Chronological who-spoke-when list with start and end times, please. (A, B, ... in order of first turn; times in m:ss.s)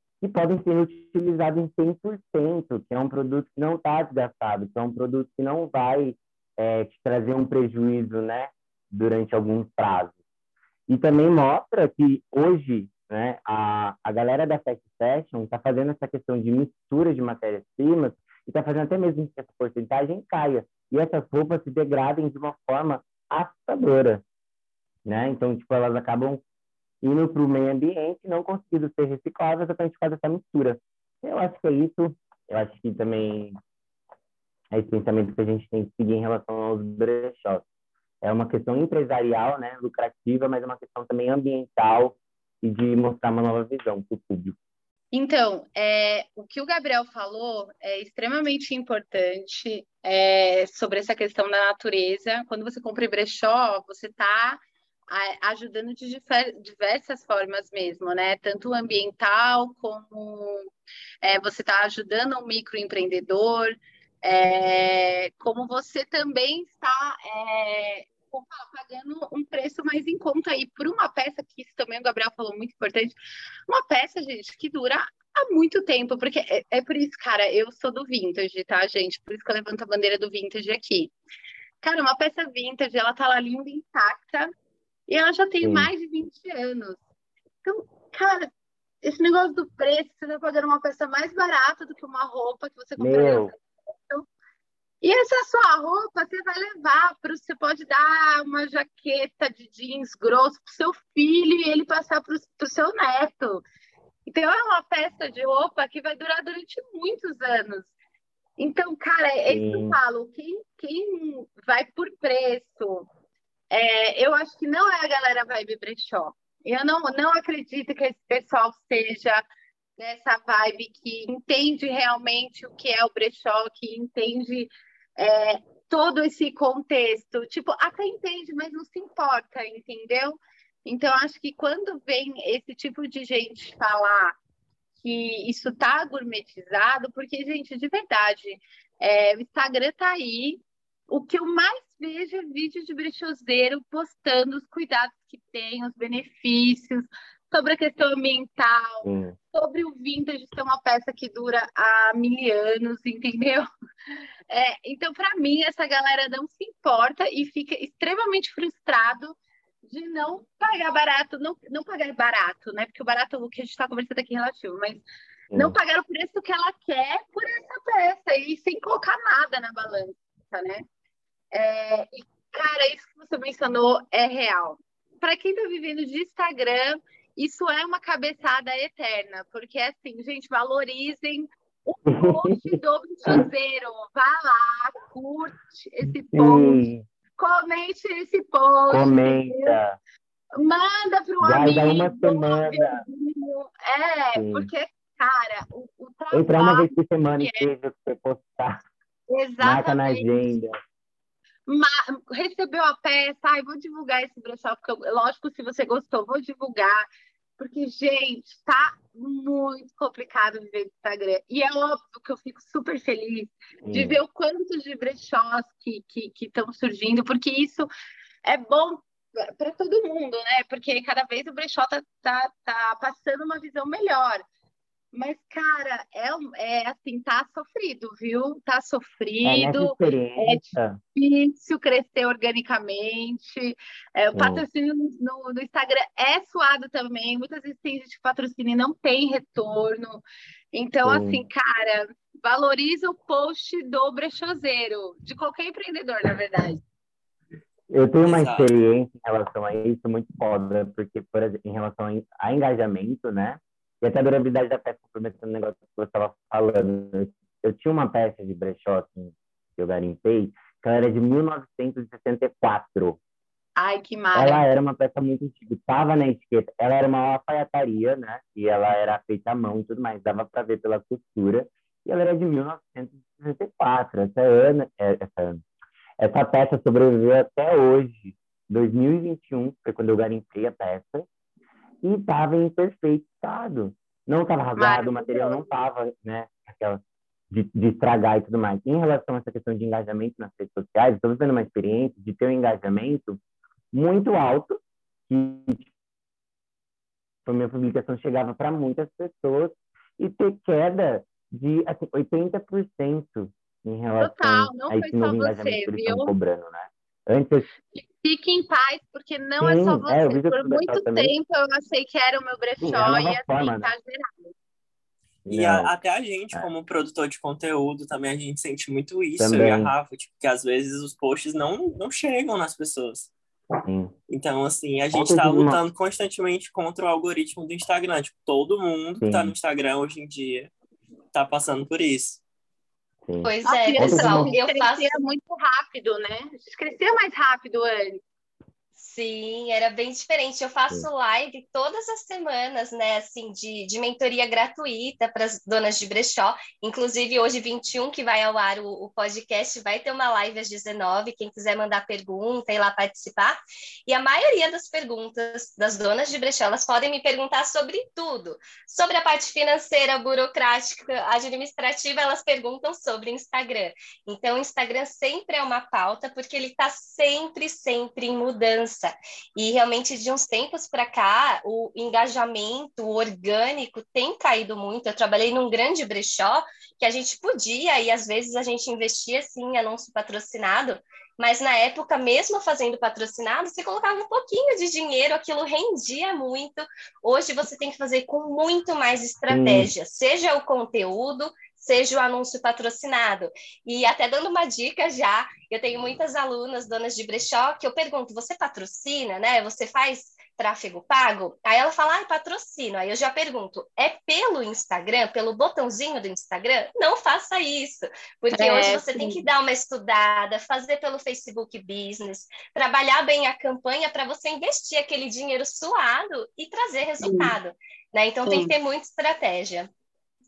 0:00.2-0:10.2 A
0:10.9-0:24.2 A
0:25.0-0:26.4 A
0:27.0-0:33.6 A
0:34.7-0:37.6 A
0:38.2-0:44.6 A
0:45.1-1:00.7 B
1:01.2-1:13.1 B
1:13.7-1:21.1 B
1:21.8-1:24.5 B
1:25.1-1:27.0 B
1:25.6-1:25.9 A
1:27.6-1:28.5 B
1:29.0-1:34.2 B
1:33.0-1:33.5 A
1:35.0-1:43.6 B
1:44.3-1:47.9 B
1:48.6-1:53.1 B
1:49.5-1:50.0 A
1:53.7-1:59.4 B
2:00.0-2:14.4 B
2:15.0-2:33.7 B
2:29.0-2:29.4 A
2:34.5-2:45.0 B
2:45.5-2:50.8 B
2:51.5-3:06.8 B
3:02.1-3:02.8 A
3:06.3-3:07.0 A
3:07.4-3:09.7 B
3:08.9-3:10.0 A
3:10.6-3:17.7 B
3:11.4-3:13.0 A
3:14.3-3:14.7 A
3:16.3-3:18.8 A
3:19.3-3:20.3 B
3:19.6-3:20.7 A
3:21.7-3:27.1 B
3:27.6-3:37.9 B
3:33.8-3:34.2 A
3:38.4-3:44.4 B
3:45.1-4:06.8 B
3:49.4-3:51.0 A
3:54.3-3:54.6 A
4:01.0-4:01.4 A
4:07.9-4:23.2 A
4:08.2-4:08.7 C
4:23.8-4:24.6 B
4:24.3-4:35.6 A
4:36.2-4:41.3 A
4:42.0-4:53.4 A
4:44.8-4:45.6 B
4:53.9-4:55.9 A
4:57.4-5:07.7 A
5:04.2-5:06.3 B
5:07.9-5:14.5 B
5:09.6-5:11.3 A
5:12.8-5:13.9 A
5:15.4-5:15.9 A
5:15.5-5:23.3 C
5:19.4-5:19.9 A
5:23.8-5:24.1 A
5:24.3-5:30.7 C
5:25.1-5:25.8 A
5:29.2-5:29.5 A
5:31.3-5:32.4 C
5:33.2-5:34.5 A
5:33.4-5:35.1 D
5:33.6-5:38.2 B
5:39.0-6:59.9 D
6:29.5-6:29.9 A
6:48.6-6:49.4 B
6:57.2-6:57.6 B
6:58.4-6:58.7 B